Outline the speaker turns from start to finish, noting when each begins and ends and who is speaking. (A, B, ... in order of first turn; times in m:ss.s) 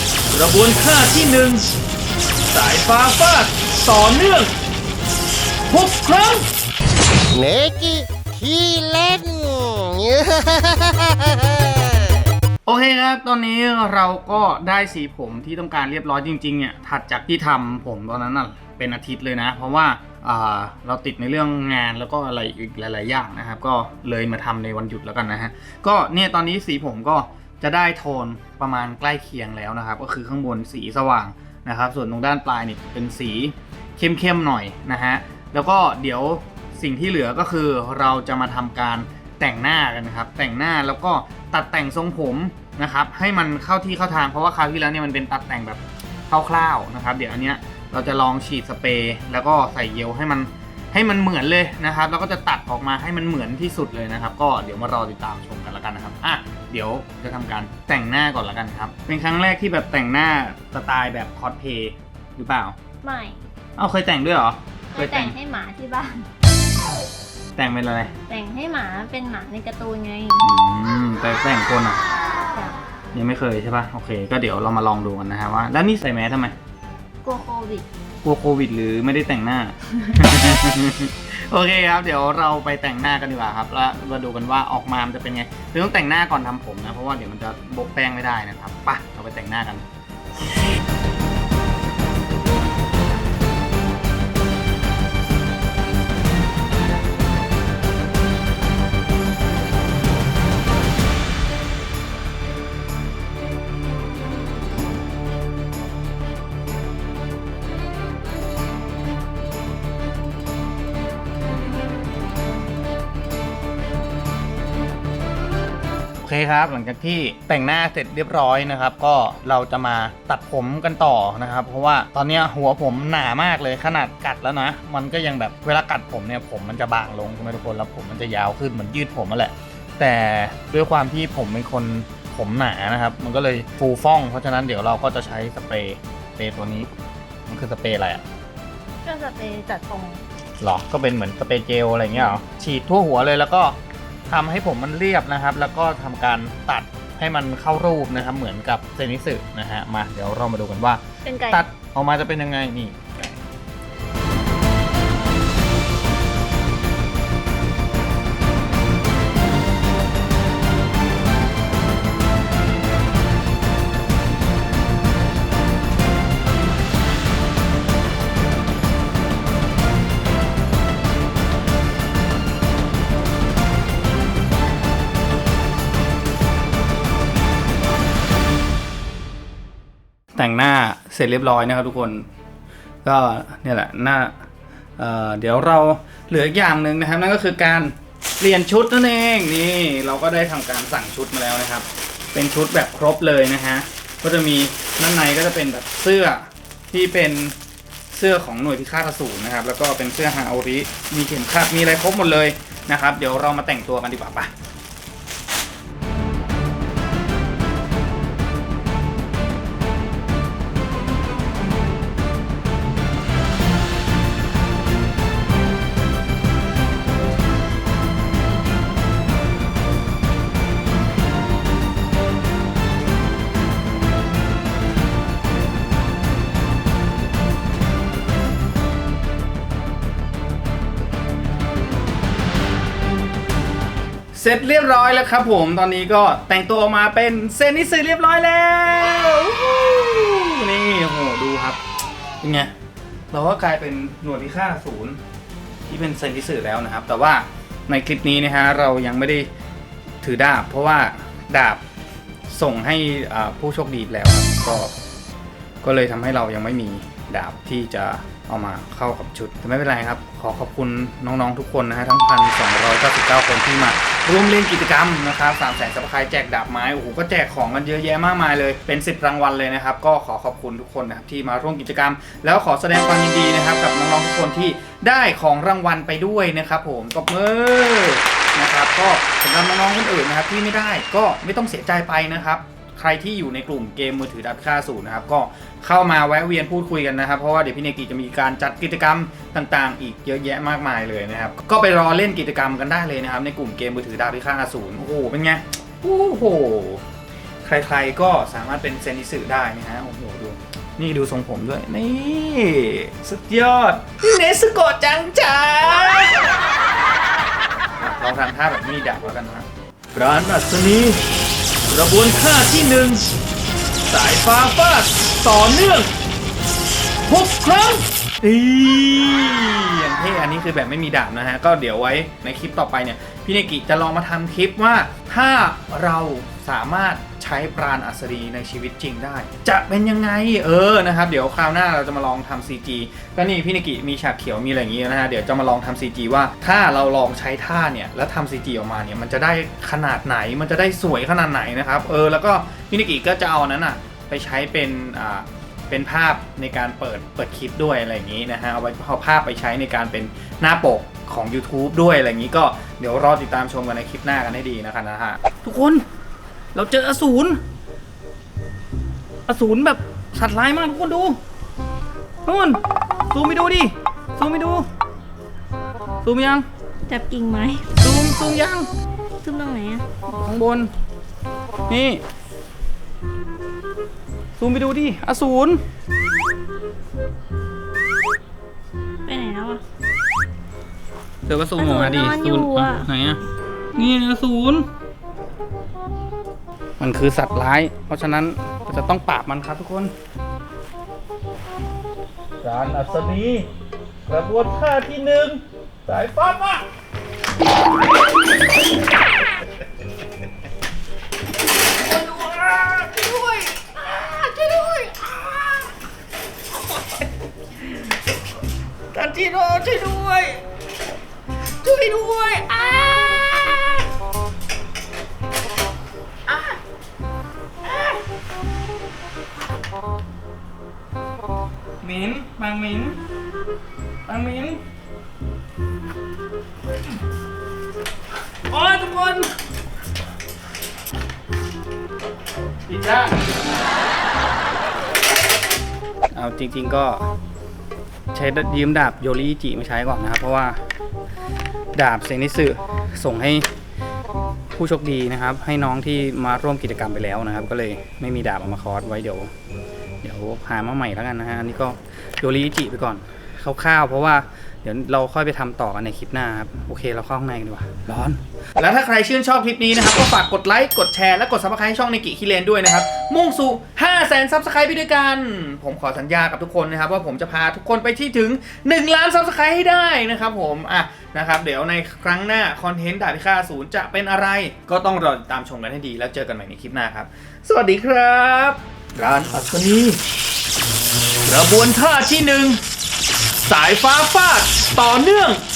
0:00.3-0:01.7 A
0:02.5-0:04.5 A
0:05.7-0:06.4 A
0:07.3-0:11.6 B
0:12.6-1:02.8 A
1:03.0-1:03.4 C
1:03.8-1:05.4 A
1:04.9-1:06.2 C
1:07.6-1:08.1 A
1:08.3-1:10.5 C
1:10.4-1:12.0 A
1:12.5-1:12.8 C
1:13.1-1:16.5 A
1:17.2-1:17.8 C
1:18.2-1:29.8 A
1:56.2-2:16.9 A
2:17.5-2:18.2 A
2:19.0-2:20.2 C
2:20.6-2:23.8 A
2:24.3-2:33.4 A
2:31.2-2:31.6 C
3:00.3-3:02.2 A
3:03.0-3:04.3 A
3:05.0-3:17.5 A
3:18.1-3:24.5 A
3:54.3-4:01.8 A
4:02.4-4:02.7 A
4:03.3-4:05.2 A
4:05.9-4:09.5 A
4:10.2-4:11.8 A
4:12.5-4:14.9 A
4:15.8-4:57.0 A
4:57.6-5:06.5 A
5:08.0-5:11.2 A
5:11.9-5:13.3 A
5:14.1-5:16.1 A
5:17.3-5:56.0 A
5:56.7-5:57.6 A
5:59.5-6:01.4 A
6:02.4-6:02.8 A
6:03.3-6:04.9 A
6:06.2-6:06.6 A
6:07.1-6:07.9 C
6:08.0-6:08.9 A
6:09.4-6:10.0 C
6:10.3-6:10.9 A
6:11.9-6:12.2 A
6:14.6-6:15.8 A
6:19.2-6:19.8 C
6:21.5-6:23.4 A
6:21.8-6:23.1 C
6:24.0-6:24.9 A
6:27.0-6:30.1 A
6:32.6-6:33.7 A
6:34.3-6:36.8 A
6:42.0-6:46.0 A
6:46.9-6:47.2 A
6:49.1-6:50.6 A
6:51.8-6:54.0 A
6:56.5-6:56.8 A
6:57.8-6:58.2 A
7:02.0-7:03.2 A
7:04.2-7:04.8 A
7:08.7-7:09.5 A
7:12.9-7:13.4 A
7:16.3-7:17.2 A
7:18.3-7:20.8 A
7:21.9-7:23.6 A
7:24.8-7:29.5 A
7:30.2-8:00.2 A
8:01.4-8:02.8 A
8:03.6-8:05.6 A